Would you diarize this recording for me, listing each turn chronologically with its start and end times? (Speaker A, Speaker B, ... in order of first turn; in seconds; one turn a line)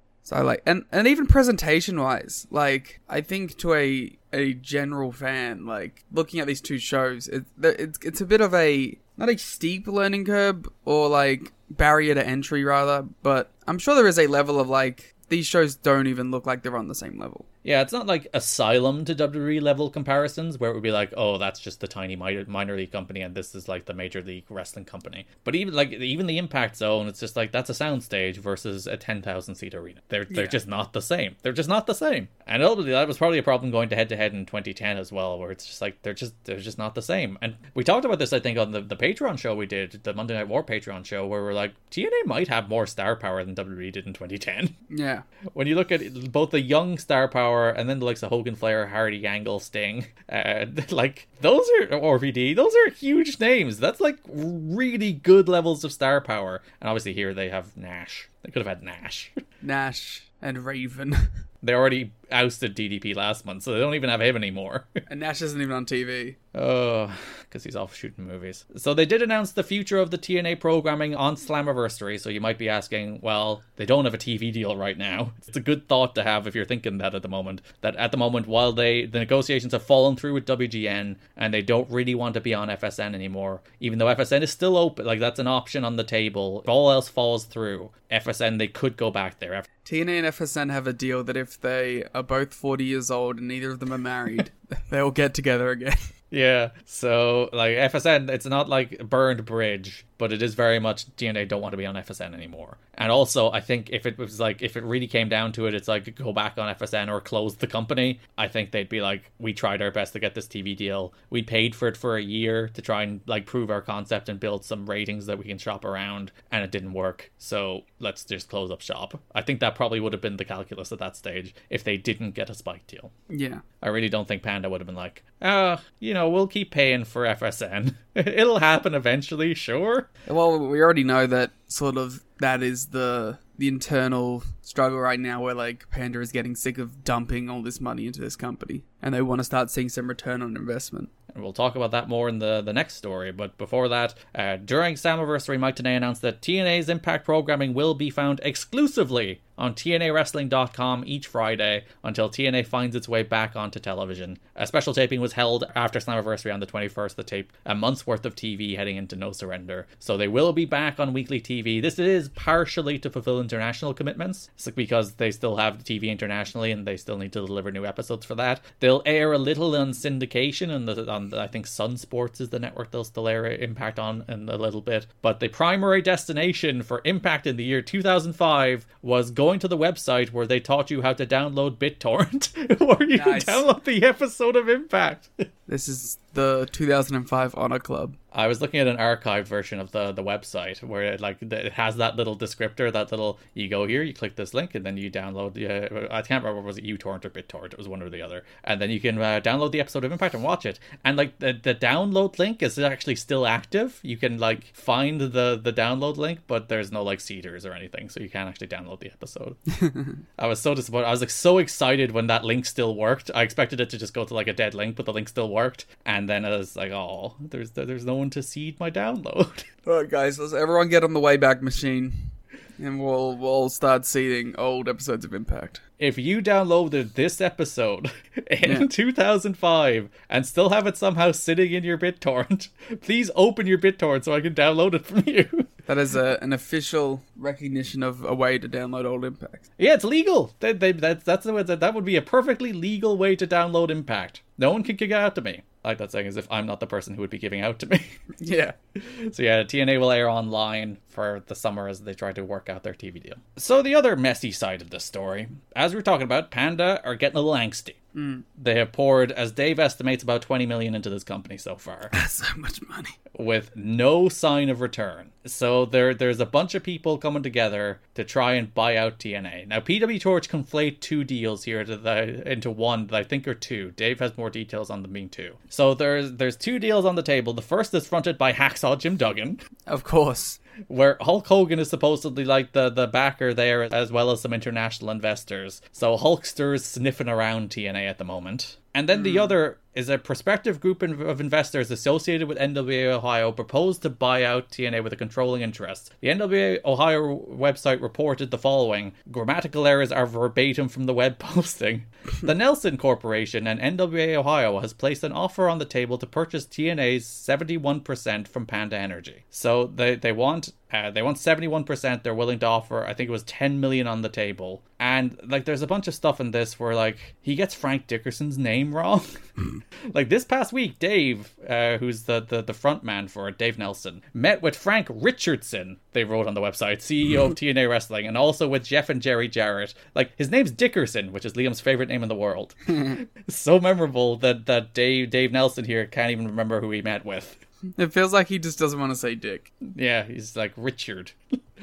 Speaker A: 0.2-17.4
Speaker B: 17.6-44.7
Speaker A: 30.3-30.6
Speaker A: 44.9-45.2
Speaker B: 45.5-59.4
Speaker A: 59.6-61.3
Speaker B: 61.6-64.9
Speaker A: 65.1-66.3
Speaker B: 66.5-89.7
Speaker A: 89.8-96.1
Speaker B: 96.3-123.1
Speaker A: 123.3-123.6
Speaker B: 123.8-130.1
Speaker A: 130.3-141.1
Speaker B: 141.3-185.3
Speaker A: 183.1-183.6
Speaker A: 185.7-188.2
Speaker B: 188.3-209.6
Speaker A: 209.8-210.1
Speaker B: 210.4-219.7
Speaker A: 219.8-225.8
Speaker B: 226.0-235.7
Speaker A: 235.9-239.6
Speaker B: 239.8-248.1
Speaker A: 248.4-248.7
Speaker B: 249.0-258.0
Speaker A: 258.1-258.4
Speaker B: 258.6-262.1
Speaker A: 262.1-263.1
Speaker B: 263.3-279.6
Speaker A: 279.9-280.6
Speaker B: 280.9-319.3
Speaker A: 289.1-289.6
Speaker B: 320.1-337.6
Speaker A: 338.0-339.7
Speaker B: 339.8-341.4